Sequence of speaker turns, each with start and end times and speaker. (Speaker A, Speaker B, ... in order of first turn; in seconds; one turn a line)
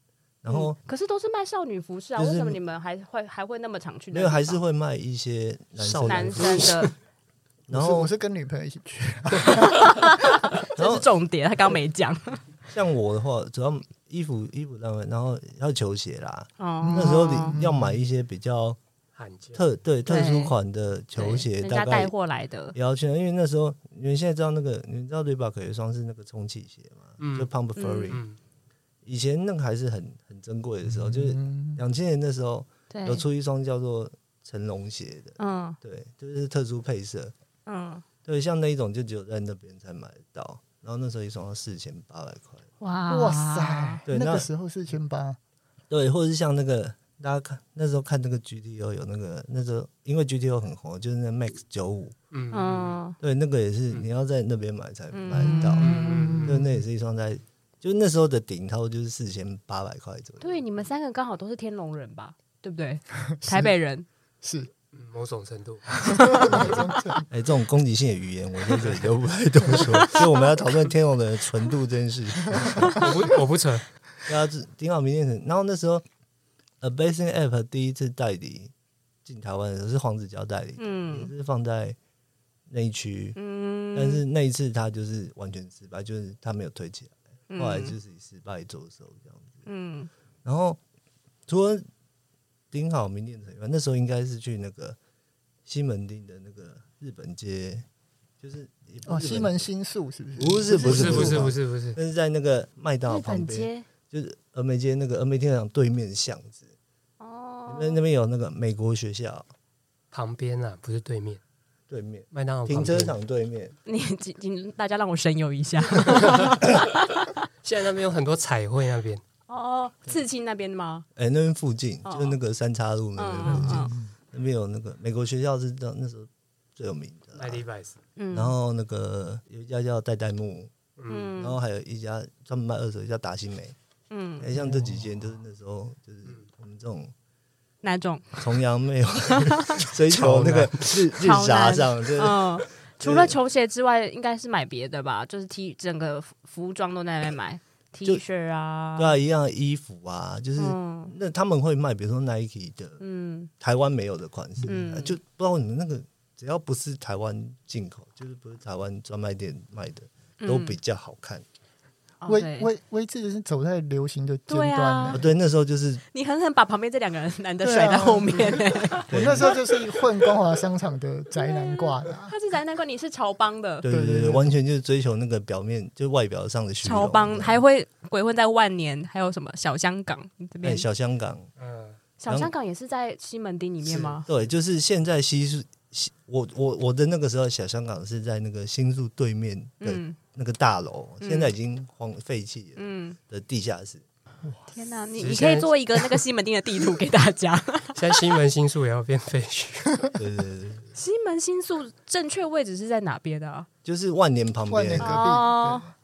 Speaker A: 0.4-0.8
Speaker B: 0.5-4.6
Speaker A: 2.2-2.6
Speaker A: 4.1-6.9
Speaker C: 5.8-6.9
Speaker B: 6.1-6.9
Speaker A: 7.7-8.1
Speaker D: 7.7-9.9
Speaker B: 9.4-12.4
Speaker A: 10.8-11.1
Speaker A: 12.7-18.8
Speaker B: 16.6-17.6
Speaker D: 16.8-17.9
Speaker C: 19.2-19.6
Speaker A: 19.6-22.1
Speaker B: 20.1-20.5
Speaker B: 21.2-22.8
Speaker A: 22.7-28.2
Speaker C: 27.2-27.5
Speaker B: 27.8-28.2
Speaker C: 28.1-28.4
Speaker A: 29.1-37.3
Speaker D: 30.9-31.8
Speaker B: 32.9-33.2
Speaker B: 35.4-35.8
Speaker B: 37.7-38.0
Speaker A: 38.2-42.6
Speaker B: 42.8-44.0
Speaker D: 43.1-45.4
Speaker A: 44.1-44.5
Speaker A: 45.9-52.1
Speaker C: 52.3-53.0
Speaker B: 52.5-53.2
Speaker A: 53.2-55.9
Speaker B: 55.1-56.6
Speaker D: 55.5-56.4
Speaker C: 55.8-56.7
Speaker A: 56.4-60.6
Speaker B: 60.4-64.1
Speaker D: 63.4-63.7
Speaker D: 64.4-64.7
Speaker C: 64.9-66.5
Speaker B: 66.0-66.8
Speaker D: 66.0-67.3
Speaker A: 67.3-73.1
Speaker B: 69.7-70.4
Speaker C: 73.0-73.8
Speaker A: 74.3-76.0
Speaker A: 76.8-78.7
Speaker A: 79.2-82.0
Speaker B: 80.8-81.3
Speaker A: 82.7-83.4
Speaker B: 83.4-84.2
Speaker A: 84.0-89.5
Speaker B: 87.5-88.0
Speaker B: 89.7-90.1
Speaker A: 90.4-90.8
Speaker A: 91.5-91.9
Speaker A: 92.7-95.0
Speaker A: 95.7-97.9
Speaker A: 98.4-99.7
Speaker D: 99.1-101.5
Speaker A: 100.4-106.7
Speaker C: 100.7-102.0
Speaker B: 103.1-103.9
Speaker B: 107.2-108.0
Speaker A: 107.7-109.5
Speaker C: 110.1-111.4
Speaker A: 111.9-113.8
Speaker C: 112.3-113.2
Speaker B: 113.9-117.3
Speaker C: 116.2-116.5
Speaker C: 117.6-119.2
Speaker B: 119.5-121.1
Speaker A: 121.2-127.6
Speaker B: 122.0-122.4
Speaker B: 123.2-123.9
Speaker C: 123.5-123.9
Speaker C: 127.3-128.0
Speaker B: 128.2-128.5
Speaker A: 128.3-130.7
Speaker C: 131.0-131.3
Speaker B: 131.1-131.6
Speaker A: 131.3-133.8
Speaker B: 134.1-134.5
Speaker A: 134.4-137.1
Speaker C: 134.6-134.9
Speaker B: 137.8-138.6
Speaker A: 138.4-143.4
Speaker B: 139.3-139.9
Speaker C: 140.1-141.0
Speaker B: 141.1-149.2
Speaker A: 149.0-153.0
Speaker B: 150.6-151.1
Speaker B: 153.0-153.5
Speaker A: 153.6-161.4
Speaker B: 154.7-155.2
Speaker B: 160.4-160.8
Speaker B: 162.2-162.7
Speaker D: 162.3-165.3
Speaker B: 164.5-165.2
Speaker A: 165.1-166.0
Speaker B: 166.1-170.3
Speaker D: 167.6-172.3
Speaker A: 169.1-169.6
Speaker B: 171.4-173.8
Speaker A: 173.8-177.6
Speaker D: 173.8-174.5
Speaker B: 176.8-180.9
Speaker A: 180.6-181.5
Speaker C: 181.6-182.0
Speaker B: 182.2-184.3
Speaker C: 183.9-184.2
Speaker A: 184.3-194.0
Speaker B: 189.8-190.2
Speaker B: 191.2-191.5
Speaker B: 192.8-193.2
Speaker B: 194.7-198.4
Speaker C: 195.2-195.7
Speaker C: 197.9-200.1
Speaker A: 200.2-200.9
Speaker B: 200.9-203.7
Speaker A: 203.8-205.3
Speaker D: 204.7-205.9
Speaker B: 205.0-205.9